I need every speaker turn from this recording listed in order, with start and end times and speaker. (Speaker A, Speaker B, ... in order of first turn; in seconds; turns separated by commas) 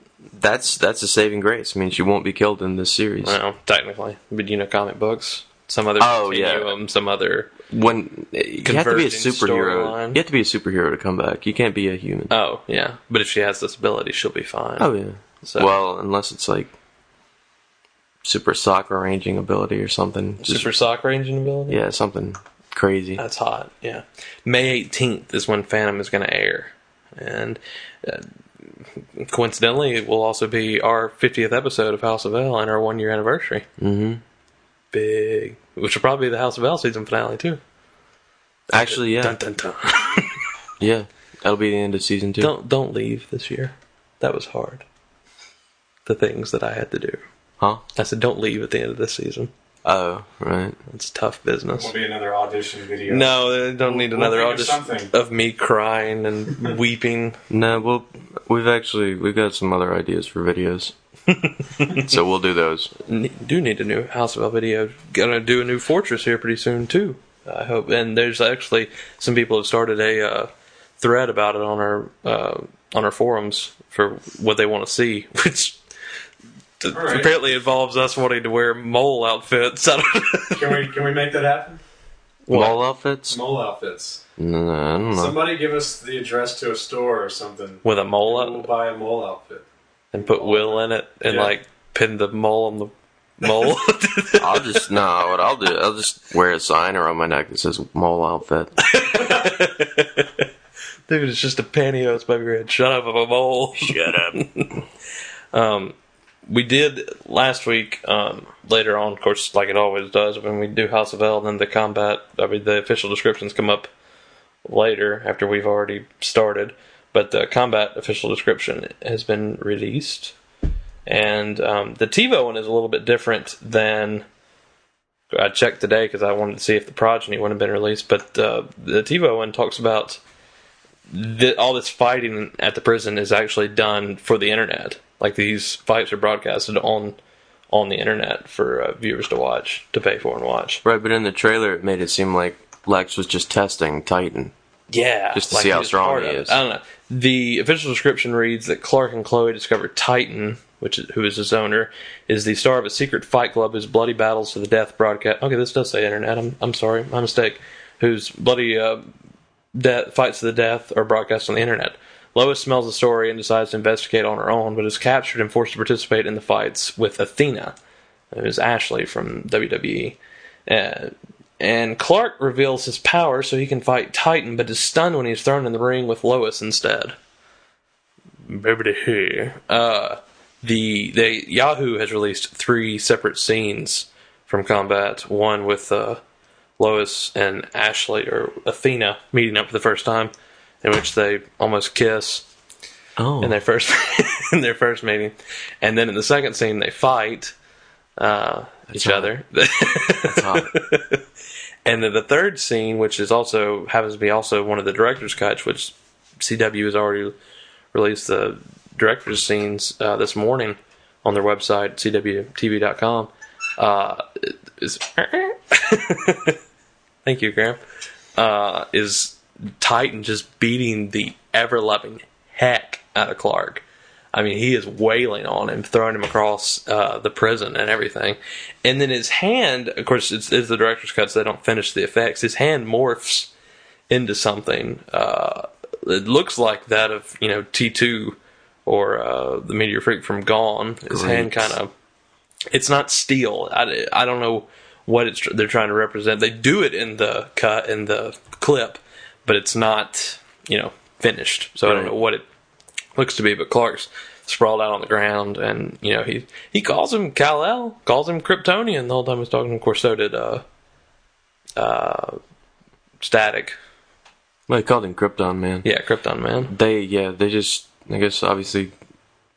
Speaker A: 0.3-3.4, Speaker B: 3.2-7.5, Speaker A: 6.0-6.7, Speaker A: 7.7-12.3, Speaker B: 8.6-10.2, Speaker B: 12.3-14.9, Speaker A: 14.8-16.7, Speaker B: 15.4-15.7, Speaker A: 18.2-20.7, Speaker B: 20.4-21.8, Speaker A: 21.7-23.2, Speaker B: 23.2-28.3, Speaker B: 29.2-33.6, Speaker A: 33.8-34.2, Speaker B: 34.9-37.6, Speaker A: 38.7-39.4, Speaker B: 38.8-40.4, Speaker A: 40.8-42.5, Speaker B: 42.4-44.8, Speaker B: 46.0-47.2, Speaker B: 47.9-49.5, Speaker A: 49.8-50.8, Speaker B: 50.9-51.9, Speaker C: 51.7-55.1, Speaker B: 53.1-57.4, Speaker A: 57.5-60.9, Speaker B: 61.3-62.1, Speaker A: 61.9-62.9, Speaker B: 63.0-75.8, Speaker B: 76.8-80.9, Speaker C: 76.9-77.3, Speaker C: 80.5-81.8, Speaker B: 82.5-82.8, Speaker A: 82.5-83.4, Speaker C: 83.3-84.2, Speaker A: 84.4-85.4, Speaker C: 85.1-89.7, Speaker B: 87.8-88.7, Speaker B: 90.1-94.8, Speaker C: 90.2-91.5, Speaker A: 94.4-98.8, Speaker B: 98.8-100.4, Speaker B: 101.1-104.8, Speaker A: 103.8-104.4, Speaker B: 105.5-105.9, Speaker B: 106.5-113.9, Speaker B: 114.6-120.3, Speaker B: 121.1-124.2, Speaker B: 125.3-130.2, Speaker B: 131.1-137.2, Speaker B: 137.7-140.8, Speaker A: 140.8-144.5, Speaker B: 144.9-159.0, Speaker A: 145.3-146.6, Speaker B: 159.7-167.8, Speaker B: 168.3-177.1, Speaker B: 178.5-186.2, Speaker B: 186.8-192.4, Speaker A: 193.2-193.6, Speaker B: 193.4-197.5, Speaker B: 198.2-201.2, Speaker A: 198.9-199.3, Speaker A: 200.2-200.7, Speaker B: 201.8-207.3, Speaker B: 207.9-216.6, Speaker B: 217.2-217.8, Speaker B: 218.3-233.5, Speaker B: 234.1-241.9, Speaker A: 241.1-241.8, Speaker B: 242.7-252.4, Speaker A: 251.8-252.1, Speaker B: 253.2-260.6, Speaker B: 261.8-262.4, Speaker B: 263.2-263.8, Speaker A: 264.7-265.9, Speaker B: 265.8-266.7, Speaker A: 266.7-268.9